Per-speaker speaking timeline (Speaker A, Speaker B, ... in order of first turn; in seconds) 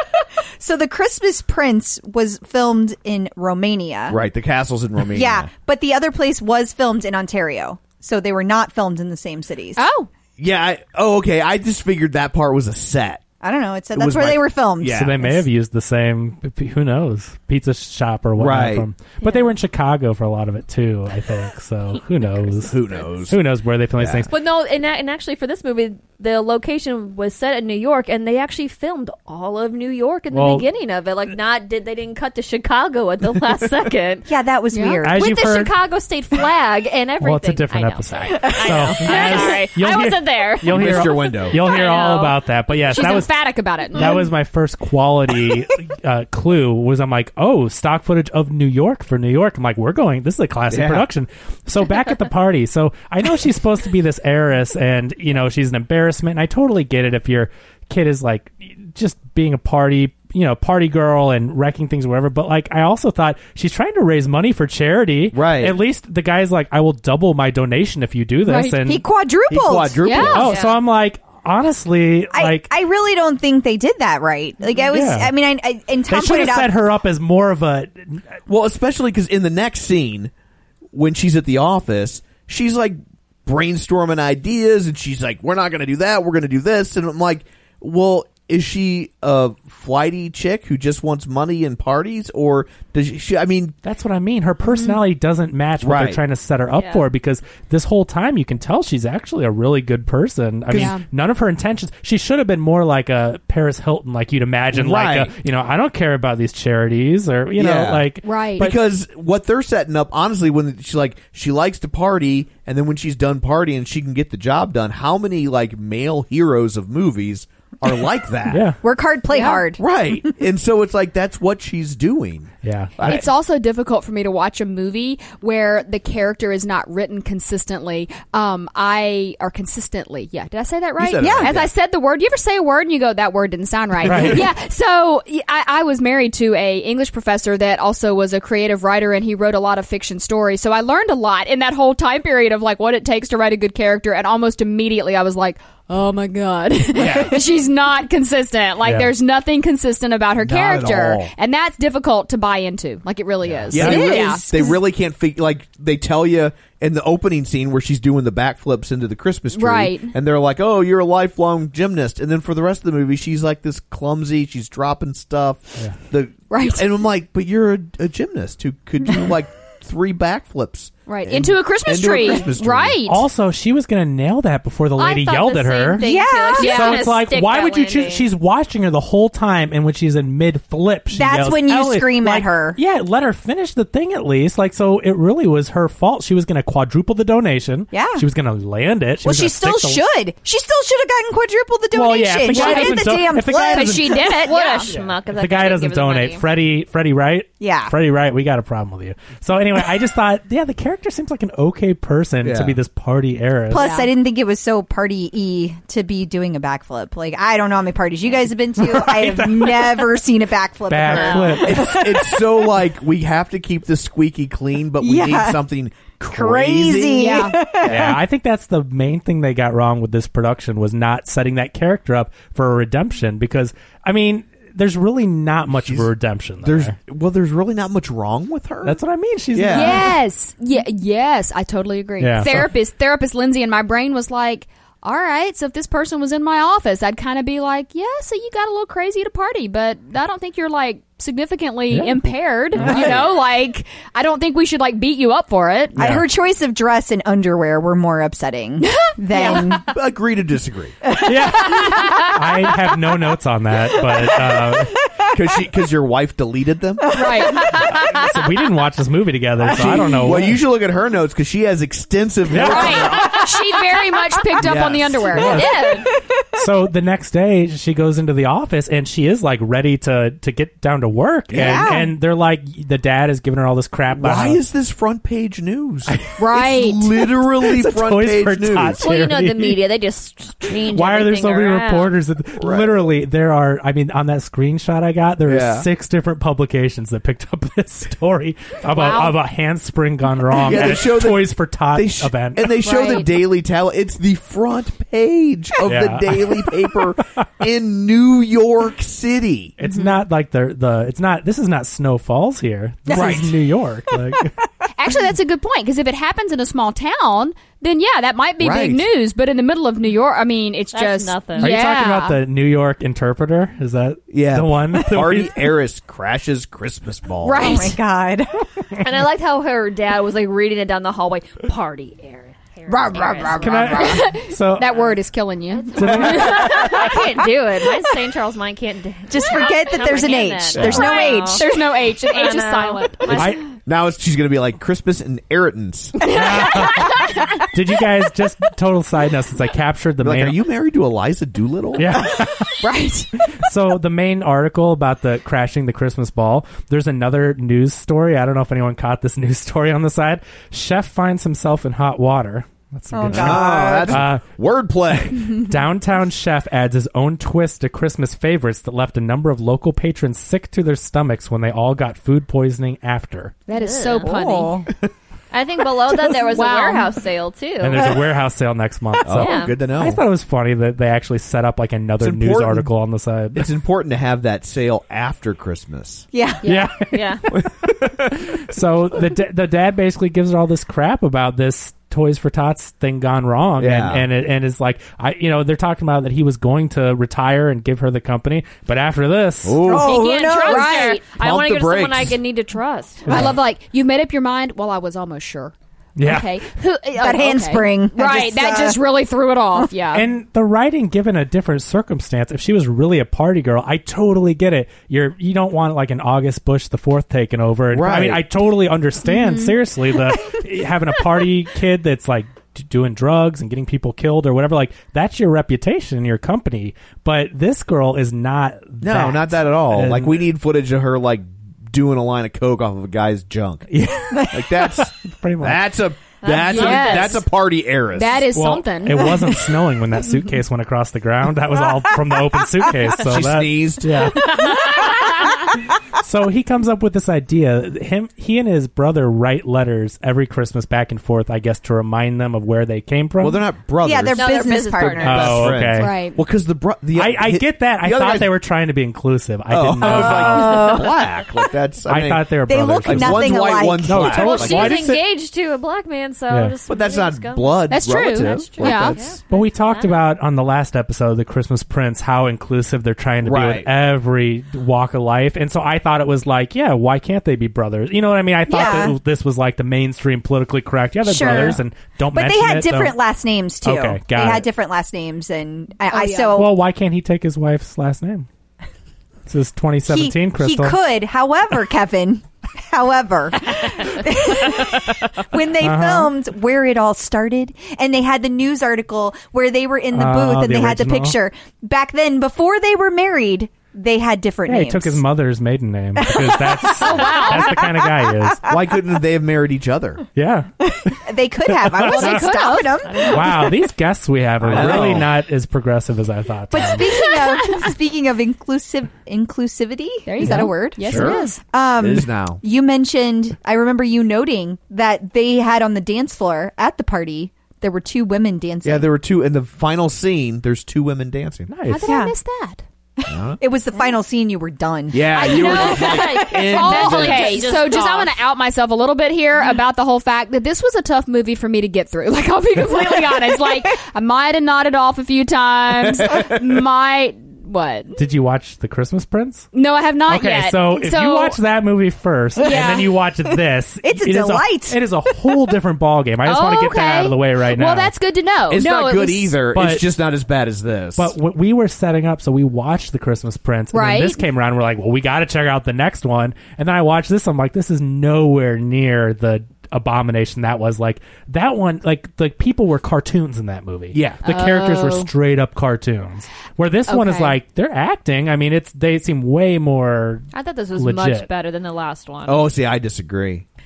Speaker A: 0.6-4.2, 5.1-9.9, 13.4-15.4, 34.3-35.2, 68.9-70.0, 72.3-76.7, 118.8-119.8, 131.2-131.5, 176.0-177.0, 181.1-182.8, 187.9-188.3, 189.2-194.8, 197.6-197.9, 203.7-212.5, 215.0-215.6, 216.3-218.2, 246.0-249.8, 251.1-252.0, 254.1-254.8, 257.1-257.9, 271.6-272.1, 303.1-303.5, 317.6-318.9, 322.9-324.2, 329.3-331.8, 342.8-343.3, 353.1-354.2, 364.2-364.9, 376.3-376.6, 389.9-391.0, 397.2-399.0, 444.0-445.6, 450.1-451.0, 452.7-454.3, 468.7-469.2, 471.2-471.8, 472.3-476.8, 480.1-495.2, 496.2-498.7, 500.9-503.7, 504.7-505.1, 506.7-519.1, 522.1-522.3, 523.2-525.3, 542.6-545.0
Speaker B: 4.1-5.5, 10.4-13.2, 13.9-15.3, 18.4-18.9, 22.6-23.4, 24.0-24.3, 40.7-41.6, 50.7-51.1, 65.3-65.8, 69.5-70.6, 78.5-80.3, 80.9-93.8, 95.8-96.2, 100.7-101.0, 104.7-105.3, 107.6-118.7, 119.8-123.3, 131.0-131.7, 134.1-134.4, 146.9-147.4, 150.4-151.3, 153.5-173.0, 202.4-202.8, 211.6-218.2, 225.8-226.1, 226.6-229.0, 229.5-230.1, 242.8-243.2, 246.0-246.2, 249.6-251.0, 255.3-257.6, 259.6-263.4, 264.6-265.5, 271.5-271.9, 274.1-279.0, 282.6-283.0, 285.4-285.9, 290.6-299.8, 303.1-303.4, 308.6-309.1, 314.3-317.9, 330.8-331.1, 333.9-336.2, 340.2-342.2, 353.3-355.6, 369.2-370.2, 372.2-372.9, 373.6-376.3, 377.6-378.3, 383.8-384.3, 389.6-390.2, 391.4-392.4, 407.9-408.4, 419.0-423.9, 424.5-428.5, 433.2-434.4, 443.4-448.5, 449.7-455.1, 456.9-459.4, 463.4-463.9, 498.7-500.2, 504.6-505.3, 511.0-512.6, 518.8-521.7, 523.3-523.6, 525.1-527.6, 536.0-536.8, 548.7-551.3, 564.1-564.4, 572.5-573.7
Speaker C: 9.8-10.1, 19.2-19.5, 34.7-35.1, 42.9-44.3, 68.5-68.8, 70.0-70.4, 94.6-95.0, 100.7-101.0, 108.2-108.8, 119.3-119.7, 123.0-154.8, 159.5-160.1, 166.5-166.8, 171.1-173.2, 176.6-177.2, 192.5-193.2, 193.7-194.9, 203.7-204.1, 211.2-211.4, 217.2-217.6, 229.7-245.9, 248.8-249.7, 257.1-257.7, 262.6-265.7, 276.4-277.1, 292.8-293.3, 305.0-312.4, 317.4-317.9, 323.6-327.1, 330.9-333.4, 363.7-364.8, 366.4-367.2, 390.1-391.3, 393.3-400.3, 426.5-427.4, 428.1-429.4, 446.0-446.4, 457.9-459.1, 476.1-476.5, 497.0-497.8, 502.1-503.4, 507.2-507.9, 510.3-511.6, 521.9-522.8, 525.4-538.2, 539.7-541.6, 542.6-543.1, 546.4-549.6, 553.9-554.4, 564.5-565.3, 567.1-567.6
Speaker D: 14.9-24.3, 30.3-30.7, 35.0-35.7, 37.2-43.4, 43.9-69.0, 70.3-72.7, 74.8-75.3, 76.1-78.4, 93.8-108.2, 118.5-118.8, 122.6-123.1, 134.1-134.4, 148.8-149.1, 153.7-154.2, 173.1-176.0, 176.6-190.0, 191.9-194.3, 194.9-203.9, 208.8-210.0, 210.9-211.9, 217.8-226.9, 228.8-230.2, 232.2-232.7, 241.9-242.3, 246.0-246.2, 251.2-255.0, 258.1-260.6, 262.5-263.2, 265.3-274.6, 276.1-276.4, 277.5-279.8, 280.9-292.8, 295.9-296.6, 299.8-304.5, 311.6-315.5, 323.6-325.1, 326.0-327.1, 333.3-333.6, 336.3-337.2, 337.7-340.6, 341.9-342.7, 343.6-354.4, 355.7-363.6, 367.8-373.7, 376.7-389.8, 393.3-393.6, 396.2-396.5, 400.1-420.4, 423.9-425.8, 428.6-435.0, 436.2-443.6, 445.2-446.2, 447.1-450.9, 452.1-455.2, 458.9-473.2, 473.9-474.7, 476.5-478.5, 479.5-481.0, 485.8-486.3, 490.1-491.4, 494.7-498.6, 500.4-502.5, 503.3-507.1, 510.4-510.7, 521.7-522.1, 538.2-539.7, 540.3-548.1, 549.7-550.0, 551.2-571.5
Speaker E: 24.3-34.3, 35.1-42.4, 70.3-70.8, 96.8-97.1, 175.0-178.3, 194.2-196.4, 265.4-266.1, 279.0-282.1, 288.9-289.3, 310.9-311.8, 319.0-324.1, 325.7-331.6, 332.3-333.6, 363.7-364.3, 365.5-368.1, 369.4-369.7, 376.6-377.4, 389.9-393.3, 426.4-427.4, 444.3-445.4, 454.2-460.2, 503.1-503.4, 525.3-528.4, 570.5-572.7